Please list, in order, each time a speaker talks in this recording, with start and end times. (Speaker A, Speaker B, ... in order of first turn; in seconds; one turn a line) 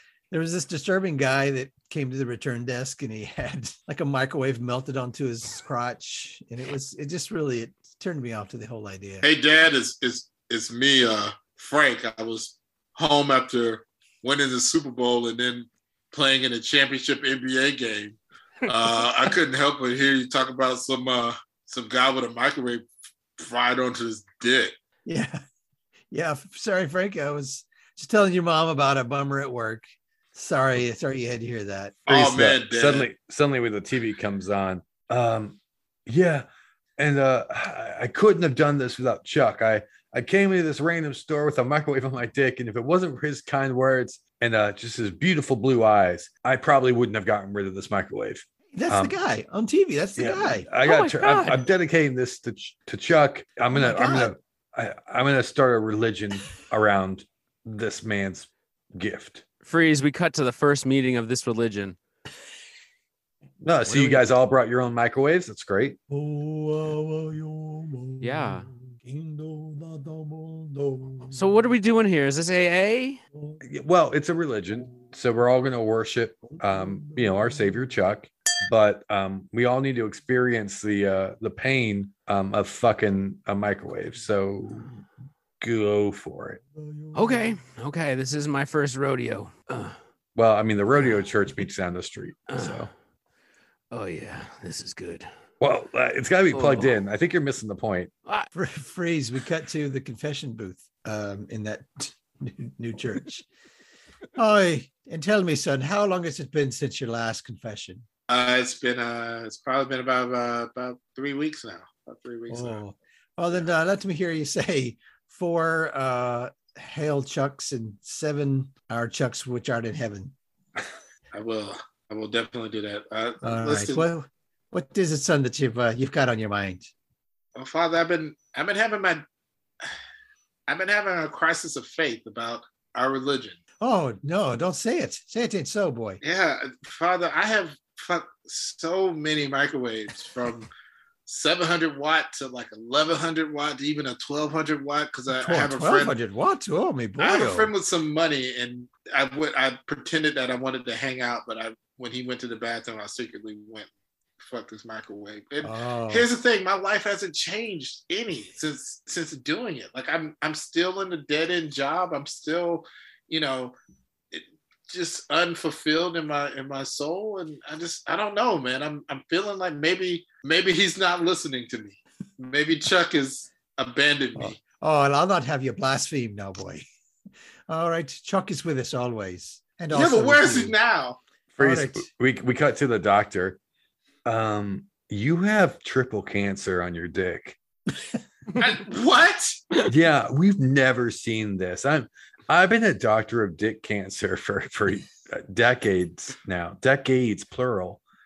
Speaker A: 0.3-9.3
Speaker B: 9.2-22.8
Speaker B: 23.4-24.7
Speaker A: 25.1-25.4
Speaker A: 26.1-32.0
Speaker B: 32.1-33.1
Speaker C: 32.1-36.5
Speaker C: 37.0-49.1
Speaker A: 48.7-50.7
Speaker C: 50.2-59.4
Speaker D: 50.8-51.6
Speaker A: 53.7-54.3
Speaker D: 59.6-62.0
Speaker C: 63.6-66.0
Speaker A: 63.9-64.2
Speaker A: 66.1-71.7
Speaker D: 68.2-68.7
Speaker D: 71.3-73.2
Speaker C: 73.6-84.9
Speaker A: 76.6-77.8
Speaker C: 85.6-86.6
Speaker A: 86.8-87.5
Speaker D: 87.1-90.0
Speaker C: 90.3-92.9
Speaker D: 92.5-92.9
Speaker D: 93.9-95.3
Speaker C: 95.6-98.1
Speaker D: 96.5-96.9
Speaker A: 98.5-103.5
Speaker A: 104.3-108.1
Speaker B: 108.3-112.8
Speaker A: 112.5-120.3
Speaker B: 121.3-124.0
Speaker A: 123.4-126.9
Speaker B: 127.6-129.2
Speaker B: 130.7-133.6
Speaker A: 133.8-136.2
Speaker B: 136.2-140.7
Speaker B: 141.3-146.1
Speaker A: 145.3-147.7
Speaker B: 147.2-153.9
Speaker B: 154.4-163.8
Speaker A: 155.6-156.3
Speaker B: 164.3-174.6
Speaker A: 174.4-176.8
Speaker A: 177.7-180.7
Speaker B: 179.9-181.2
Speaker C: 181.6-183.6
Speaker A: 181.6-182.1
Speaker C: 184.2-187.6
Speaker B: 188.6-189.7
Speaker C: 189.8-198.0